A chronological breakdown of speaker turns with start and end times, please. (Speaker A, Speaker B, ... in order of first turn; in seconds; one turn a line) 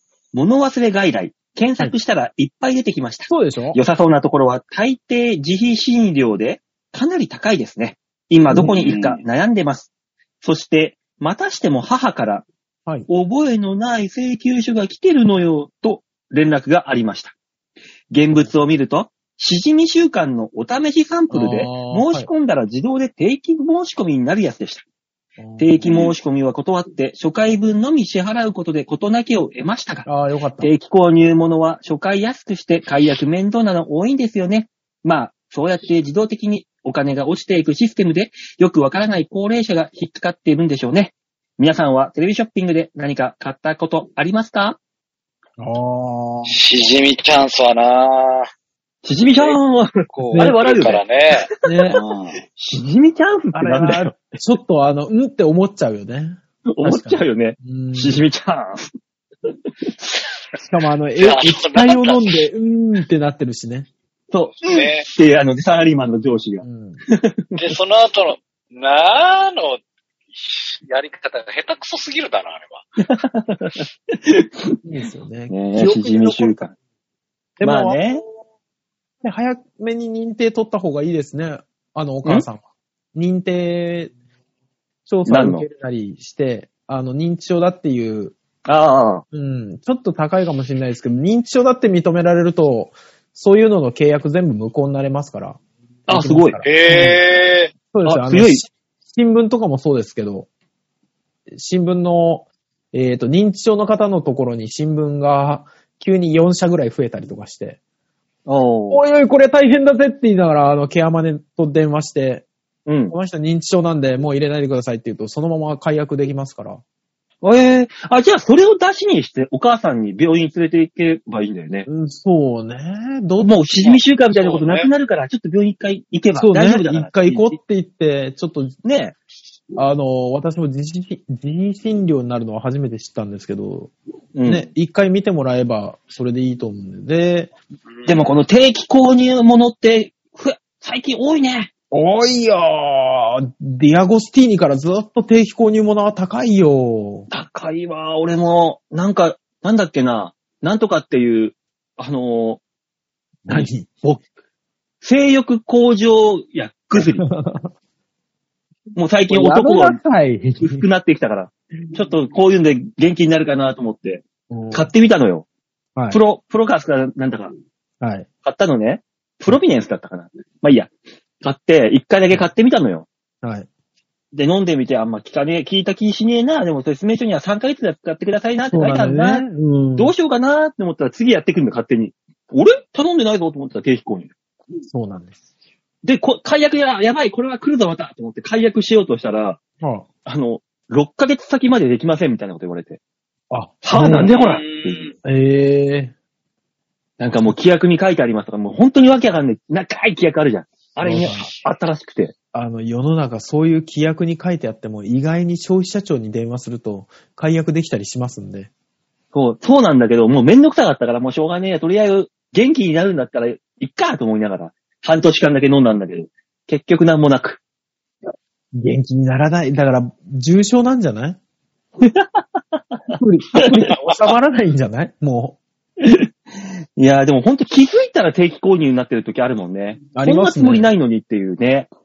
Speaker A: 0.3-9.9
Speaker B: 3.3-3.8
Speaker C: 8.7-9.2
Speaker A: 10.4-12.5
Speaker A: 13.1-17.3
Speaker A: 18.1-24.8
Speaker B: 21.3-22.3
Speaker B: 25.4-26.1
Speaker A: 25.6-30.1
Speaker B: 30.1-30.7
Speaker A: 30.6-44.8
Speaker B: 45.6-46.5
Speaker C: 46.5-48.5
Speaker A: 49.0-51.0
Speaker C: 50.1-52.4
Speaker B: 50.2-50.6
Speaker B: 51.6-52.0
Speaker A: 52.5-54.1
Speaker B: 53.5-58.2
Speaker A: 56.7-58.9
Speaker A: 59.8-60.2
Speaker B: 60.6-63.9
Speaker C: 61.2-62.4
Speaker A: 64.3-67.8
Speaker C: 64.6-65.0
Speaker B: 66.6-67.0
Speaker C: 67.6-69.8
Speaker C: 70.3-72.8
Speaker A: 73.0-74.8
Speaker B: 74.8-76.6
Speaker A: 75.5-76.7
Speaker B: 77.6-78.3
Speaker A: 77.6-78.2
Speaker B: 79.2-82.6
Speaker B: 83.1-84.1
Speaker B: 85.1-88.3
Speaker A: 85.2-85.7
Speaker A: 88.7-89.2
Speaker B: 89.3-97.2
Speaker A: 96.1-96.6
Speaker C: 96.6-97.7
Speaker B: 97.9-100.5
Speaker A: 98.0-98.6
Speaker B: 101.5-107.8
Speaker A: 108.5-109.0
Speaker B: 108.9-112.5
Speaker A: 112.8-113.1
Speaker B: 113.1-116.8
Speaker A: 117.4-121.9
Speaker B: 121.9-123.6
Speaker A: 123.4-127.5
Speaker C: 123.8-124.9
Speaker B: 126.3-128.8
Speaker A: 128.8-129.2
Speaker B: 129.8-133.9
Speaker A: 134.3-134.7
Speaker B: 134.4-137.5
Speaker C: 137.9-138.2
Speaker A: 138.1-141.7
Speaker B: 141.9-147.3
Speaker A: 147.3-152.6
Speaker B: 153.4-154.0
Speaker A: 153.5-154.2
Speaker A: 155.0-157.2
Speaker B: 156.9-157.7
Speaker A: 158.9-160.0
Speaker B: 159.3-160.8
Speaker A: 160.6-165.4
Speaker B: 164.5-164.9
Speaker A: 166.1-167.5
Speaker B: 168.0-168.3
Speaker A: 168.4-170.9
Speaker A: 171.4-173.1
Speaker B: 173.4-173.7
Speaker A: 174.3-179.4
Speaker B: 178.7-180.1
Speaker A: 180.0-184.3
Speaker B: 184.8-185.4
Speaker A: 186.0-189.6
Speaker B: 189.8-190.1
Speaker A: 190.2-193.0
Speaker B: 193.5-194.3
Speaker A: 193.8-195.1
Speaker C: 194.2-195.1
Speaker B: 195.2-196.1
Speaker A: 197.2-202.3
Speaker B: 201.0-201.5
Speaker B: 202.5-208.7
Speaker A: 209.3-217.6
Speaker B: 218.7-221.4
Speaker A: 222.0-223.9
Speaker B: 223.1-225.6
Speaker C: 223.9-224.2
Speaker A: 226.0-231.9
Speaker B: 230.1-230.9